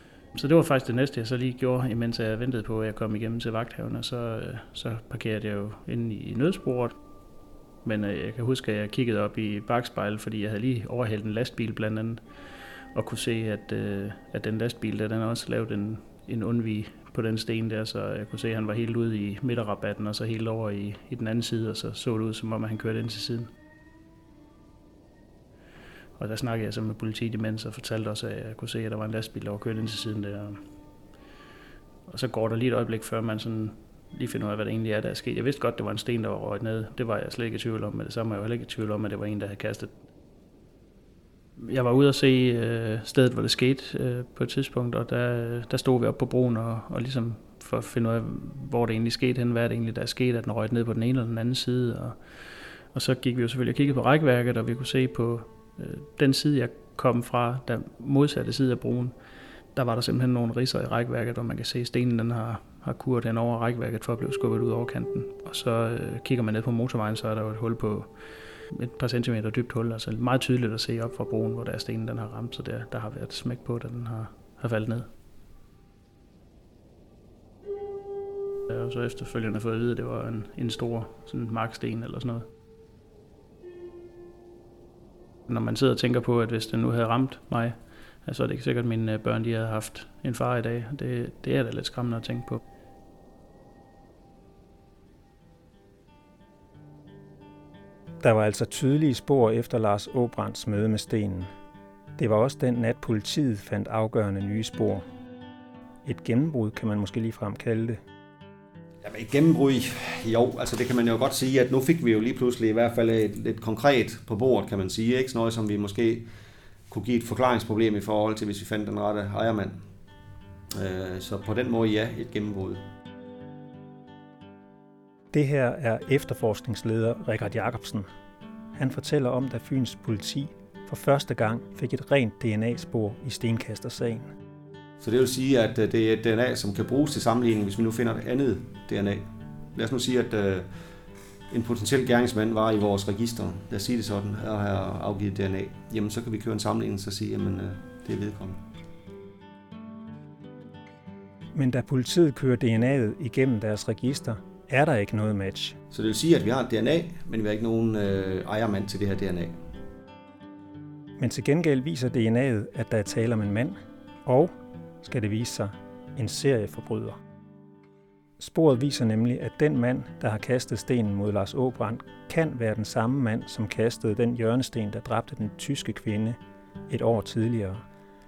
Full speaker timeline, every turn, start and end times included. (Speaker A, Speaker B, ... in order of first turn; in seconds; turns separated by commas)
Speaker A: 0.3-7.0, Speaker A: 7.8-23.5, Speaker A: 26.1-30.6, Speaker A: 32.1-40.0, Speaker A: 41.6-59.1, Speaker A: 59.7-75.1, Speaker A: 78.7-82.5, Speaker A: 85.5-92.6, Speaker B: 98.2-101.5, Speaker B: 102.2-105.0, Speaker B: 106.0-108.0, Speaker C: 109.0-116.3, Speaker C: 116.9-119.8, Speaker C: 120.7-122.8, Speaker B: 125.3-128.1, Speaker B: 128.7-134.3, Speaker C: 135.0-140.7, Speaker C: 141.5-148.6, Speaker B: 151.5-155.8, Speaker C: 155.9-159.6, Speaker B: 161.2-164.5, Speaker B: 165.0-167.2, Speaker B: 168.4-176.4, Speaker B: 176.9-177.8